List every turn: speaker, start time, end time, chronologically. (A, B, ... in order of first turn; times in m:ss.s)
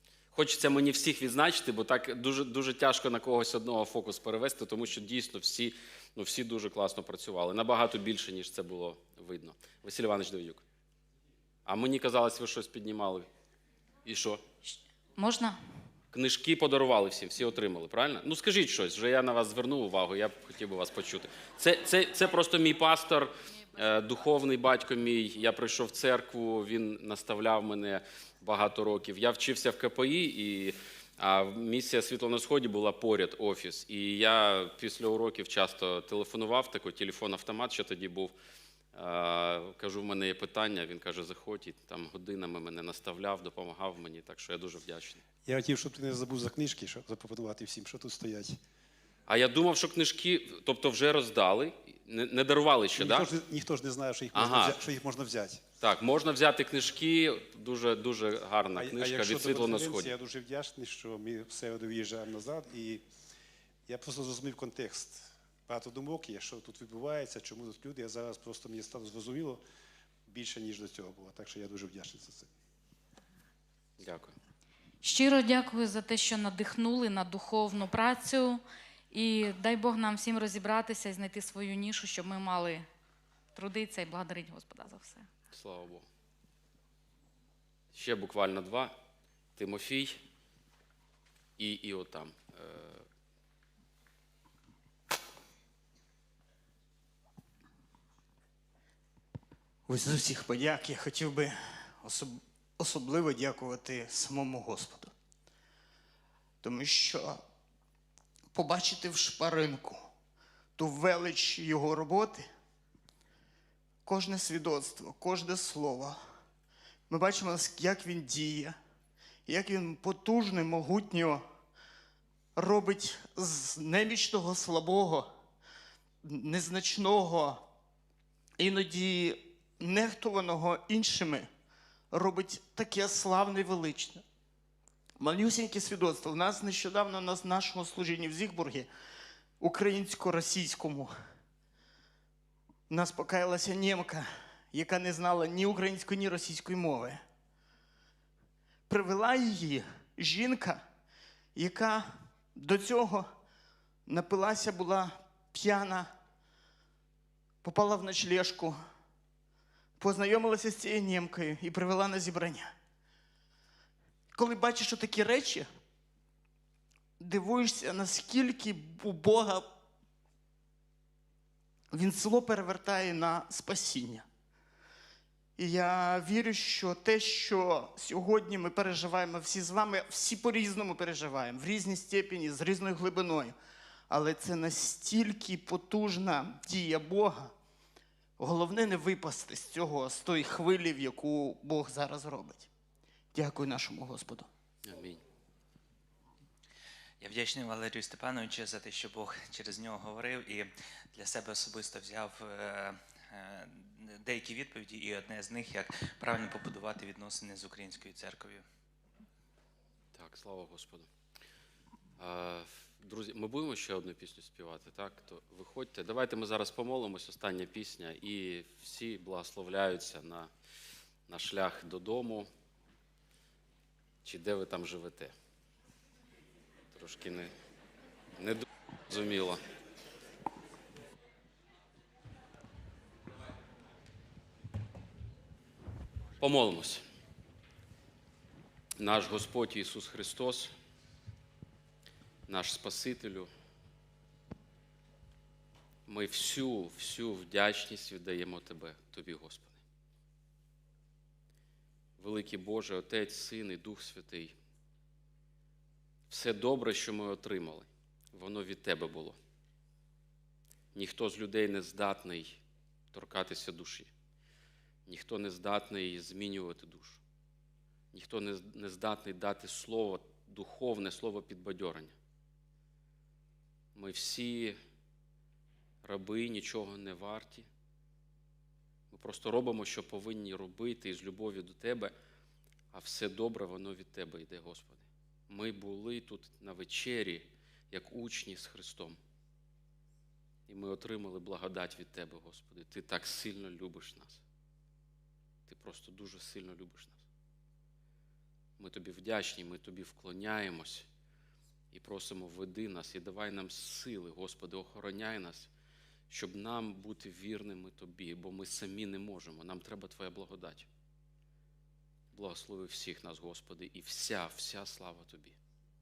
0:00.3-0:10.6 A
0:11.6-0:13.3 A
0:14.0-0:14.4 A
0:14.6-0:15.6 B
0:16.1-0:38.3 A
0:38.9-0:45.2 A
0:45.4-0:48.6 C
0:49.3-0:53.3 A
0:53.0-0:55.6 C
0:54.3-0:54.8 A
0:55.8-1:00.1 A
0:58.8-1:03.0 C
1:03.9-1:09.6 C
1:10.3-1:12.5 C
1:14.0-1:14.4 A
1:15.0-1:22.9 B
1:23.5-1:25.3 B
1:25.5-1:26.1 A
1:27.9-1:28.9 A
1:29.6-1:30.2 A
1:31.6-1:33.0 A
1:39.9-1:45.1 D
1:46.6-1:47.4 D
1:48.5-1:50.1 D
1:50.8-1:52.5 D
1:54.0-1:56.2 D
1:57.1-1:58.8 D
1:59.5-2:01.4 D
2:02.6-2:05.3 D
2:06.2-2:07.6 D
2:08.6-2:11.5 D
2:12.1-2:14.2 D
2:15.2-2:18.9 D
2:19.6-2:21.1 D
2:22.9-2:27.2 D
2:28.9-2:30.8 D
2:31.6-2:33.3 D
2:34.1-2:36.1 D
2:37.6-2:38.8 D
2:40.0-2:42.7 D
2:44.3-2:45.6 D
2:47.2-2:49.6 D
2:51.9-2:54.2 D
2:55.6-3:03.6 D
3:04.1-3:07.5 D
3:08.4-3:12.7 D
3:13.3-3:14.5 D
3:14.8-3:15.2 A
3:17.2-3:28.6 E
3:30.1-3:31.1 A
3:32.2-3:40.5 A
3:41.3-3:42.5 A
3:44.2-3:45.3 A
3:46.9-3:47.5 A
3:48.4-3:49.6 A
3:56.4-3:57.0 A
3:59.0-4:00.7 A
4:02.5-4:03.5 A
4:06.1-4:09.8 A
4:12.2-4:14.5 A
4:16.3-4:19.4 A
4:20.9-4:22.6 A
4:23.1-4:24.1 A
4:25.0-4:27.2 A
4:28.1-4:32.1 A
4:33.9-4:34.7 A
4:36.0-4:37.7 A
4:39.1-4:42.1 A
4:42.9-4:49.2 A
4:50.7-4:54.4 A
4:55.7-4:57.2 A
4:58.8-5:01.0 A
5:01.9-5:05.7 A
5:06.3-5:10.9 A
5:12.3-5:15.6 A